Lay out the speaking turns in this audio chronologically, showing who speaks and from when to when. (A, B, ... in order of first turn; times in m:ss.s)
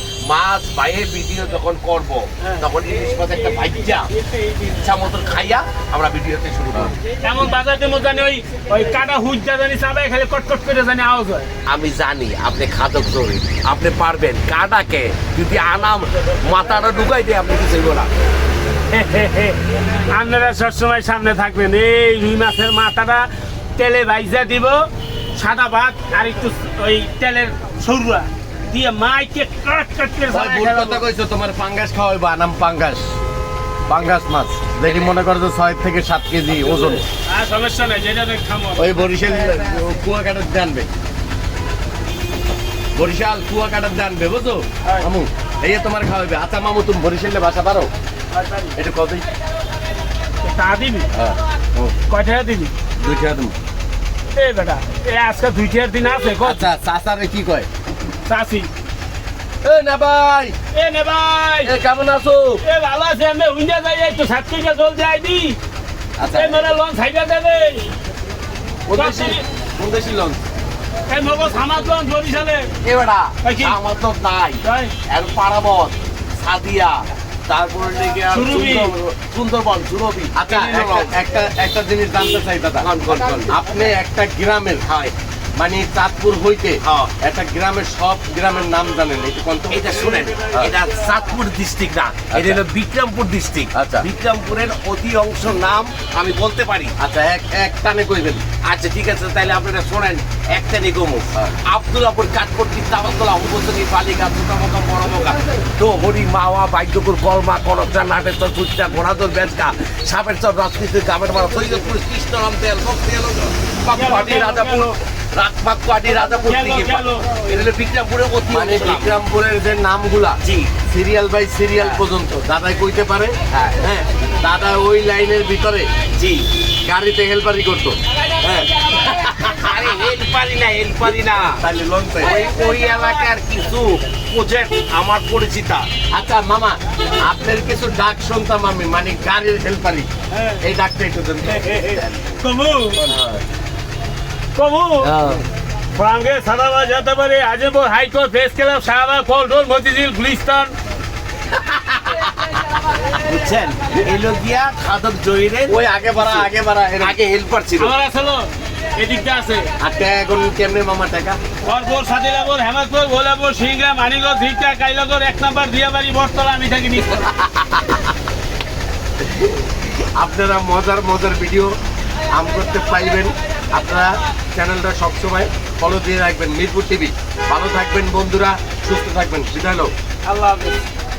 0:00.2-0:04.1 A
0:02.4-0:02.7 B
0:04.2-0:04.5 B
0:04.6-0:07.0 A
0:07.2-0:11.5 B
0:11.7-0:18.1 A
0:18.9-0:31.0 B
0:30.3-0:33.1 C
0:33.9-0:37.0 C
0:36.7-0:39.4 B
0:38.8-0:40.9 C
0:43.0-0:47.9 C
0:48.3-0:48.8 B
0:48.8-0:49.2 C
0:50.4-0:51.1 B
0:51.1-0:52.0 C
0:52.1-0:52.7 B
0:53.0-0:53.6 C
0:54.3-0:56.6 B
0:56.4-0:57.7 C
0:58.2-0:58.7 B
0:59.6-1:00.6 C
1:00.7-1:01.7 B
1:01.8-1:02.5 C
1:02.6-1:05.6 B
1:06.2-1:06.6 C
1:06.3-1:07.9 B
1:08.9-1:10.4 A
1:08.9-1:09.4 B
1:11.1-1:12.7 B
1:12.8-1:21.2 A
1:13.4-1:13.8 B
1:14.6-1:14.9 B
1:18.3-1:18.9 B
1:20.4-1:22.9 C
1:22.8-1:23.6 A
1:23.5-1:24.9 C
1:24.8-1:25.1 A
1:25.6-1:30.0 C
1:26.8-1:27.1 A
1:29.7-1:36.9 A
1:30.5-1:30.7 C
1:32.3-1:32.6 C
1:33.7-1:34.1 C
1:37.0-1:38.4 C
1:38.6-1:59.2 A
1:53.9-1:55.0 B
1:56.4-1:57.3 B
1:58.5-2:05.9 C
2:00.4-2:00.7 A
2:01.8-2:02.0 A
2:03.5-2:03.8 A
2:06.2-2:06.5 A
2:06.8-2:08.0 C
2:08.4-2:08.7 A
2:08.9-2:10.1 C
2:09.6-2:11.6 A
2:11.6-2:12.5 C
2:12.2-2:15.9 A
2:16.1-2:20.1 C
2:20.3-2:20.6 B
2:20.6-2:22.0 C
2:21.5-2:23.1 B
2:21.5-2:22.2 A
2:23.0-2:23.4 C
2:24.6-2:25.1 B
2:25.0-2:25.4 A
2:25.9-2:30.8 B
2:31.6-2:33.0 C
2:33.1-2:37.9 A
2:35.7-2:37.2 C
2:37.8-2:39.7 B
2:39.8-2:41.4 C
2:41.6-2:47.3 B
2:47.3-2:48.1 C
2:50.1-2:51.7 C
2:52.3-2:59.9 C
3:00.2-3:00.9 B